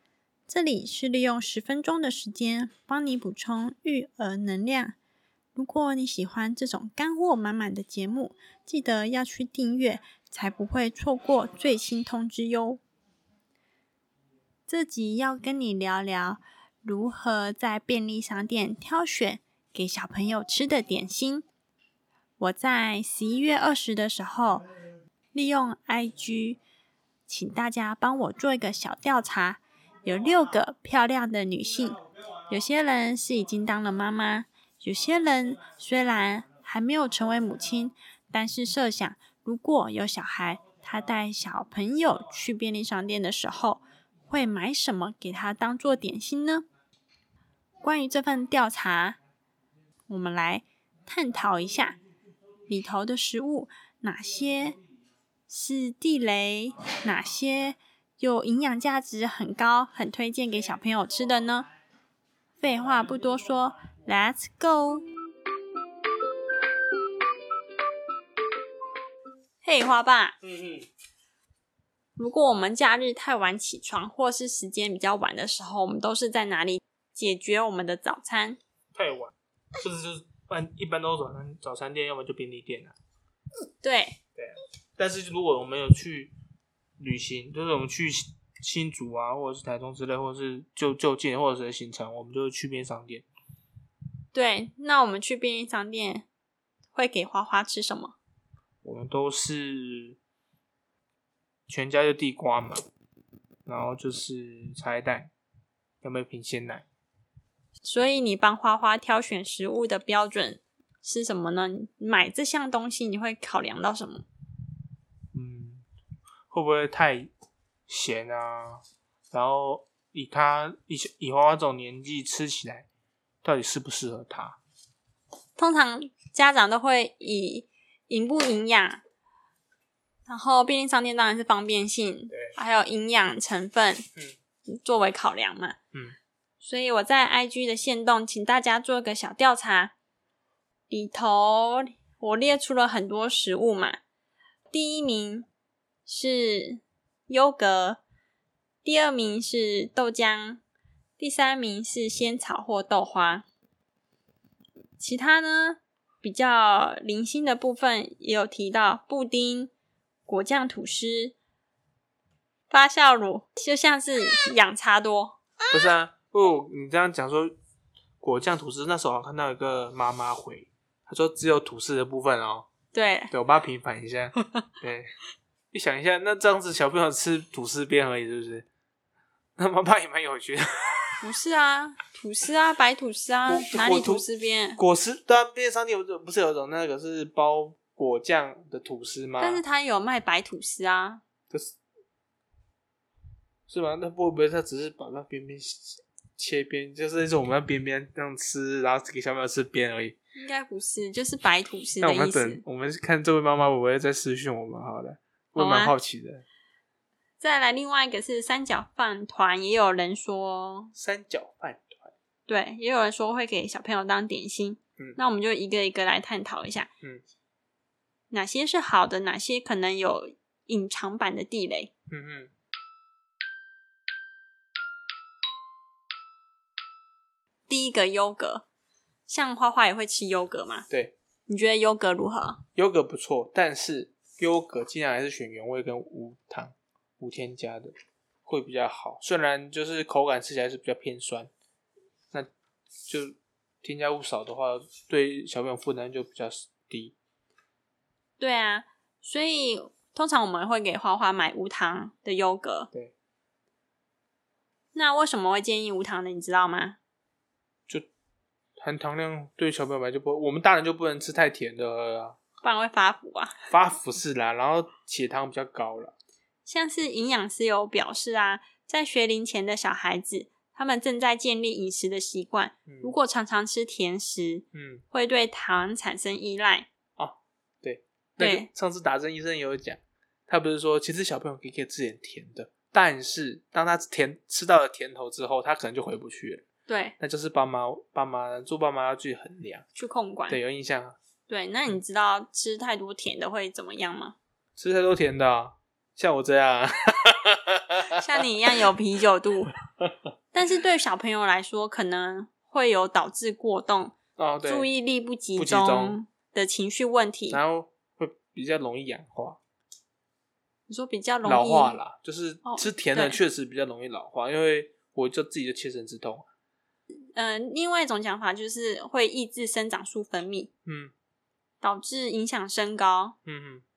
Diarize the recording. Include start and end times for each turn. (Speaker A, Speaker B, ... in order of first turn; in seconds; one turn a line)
Speaker A: 0.5-5.0
Speaker A: 5.5-12.8
Speaker A: 14.7-21.4
Speaker A: 22.4-24.6
Speaker A: 25.3-26.6
Speaker A: 27.3-46.6
Speaker A: 47.8-49.2
Speaker A: 50.1-52.0
Speaker A: 52.7-54.8
Speaker A: 55.5-61.7
Speaker A: 62.6-65.0
Speaker A: 69.6-70.3
Speaker B: 70.4-70.9
Speaker A: 72.2-78.6
Speaker B: 78.9-82.9
Speaker A: 83.8-84.2
Speaker B: 84.4-86.3
Speaker B: 87.0-93.2
Speaker A: 94.3-96.3
Speaker A: 96.9-98.2
Speaker B: 98.8-100.2
Speaker B: 101.7-102.8
Speaker B: 103.7-105.3
Speaker B: 106.0-106.8
Speaker A: 107.8-114.2
Speaker B: 115.3-115.8
Speaker B: 116.5-117.3
Speaker B: 117.9-122.9
Speaker B: 123.4-124.6
Speaker A: 125.6-129.0
Speaker A: 130.3-134.1
Speaker A: 134.7-135.8
Speaker A: 136.6-139.9
Speaker A: 140.9-144.0
Speaker A: 144.7-145.5
Speaker A: 146.1-148.0
Speaker A: 148.8-150.6
Speaker A: 151.2-153.4
Speaker A: 155.0-159.7
Speaker A: 160.3-161.3
Speaker A: 162.7-165.4
Speaker B: 165.7-167.5
Speaker B: 168.2-172.7
Speaker A: 172.9-173.3
Speaker B: 173.3-175.1
Speaker B: 175.7-178.7
Speaker B: 179.6-181.2
Speaker A: 181.2-184.8
Speaker B: 183.4-184.2
Speaker B: 184.8-189.6
Speaker A: 189.4-191.2
Speaker B: 193.7-200.2
Speaker A: 200.3-202.6
Speaker B: 202.0-206.4
Speaker A: 205.6-205.9
Speaker A: 207.4-210.9
Speaker B: 210.9-212.1
Speaker A: 212.5-216.9
Speaker A: 218.3-221.9
Speaker B: 222.1-222.5
Speaker A: 227.7-228.6
Speaker A: 229.3-230.9
Speaker B: 230.9-231.1
Speaker A: 231.5-232.6
Speaker B: 232.8-237.9
Speaker B: 238.4-241.5
Speaker B: 243.1-247.2
Speaker A: 248.4-252.9
Speaker A: 254.9-257.0
Speaker B: 258.8-262.4
Speaker A: 262.6-263.6
Speaker B: 263.7-266.1
Speaker A: 266.6-276.9
Speaker B: 272.9-273.1
Speaker B: 274.7-275.0
Speaker B: 277.2-286.6
Speaker A: 278.4-278.7
Speaker A: 286.9-287.1
Speaker B: 287.2-289.8
Speaker A: 289.9-290.6
Speaker B: 290.5-291.2
Speaker A: 291.5-294.4
Speaker B: 294.8-298.2
Speaker A: 298.1-299.7
Speaker A: 300.5-307.6
Speaker B: 304.4-304.9
Speaker B: 305.6-306.2
Speaker B: 307.5-309.6
Speaker A: 310.9-312.0
Speaker B: 311.4-316.4
Speaker A: 312.6-313.4
Speaker A: 317.3-320.7
Speaker B: 320.8-321.1
Speaker A: 321.8-323.4
Speaker B: 323.4-323.8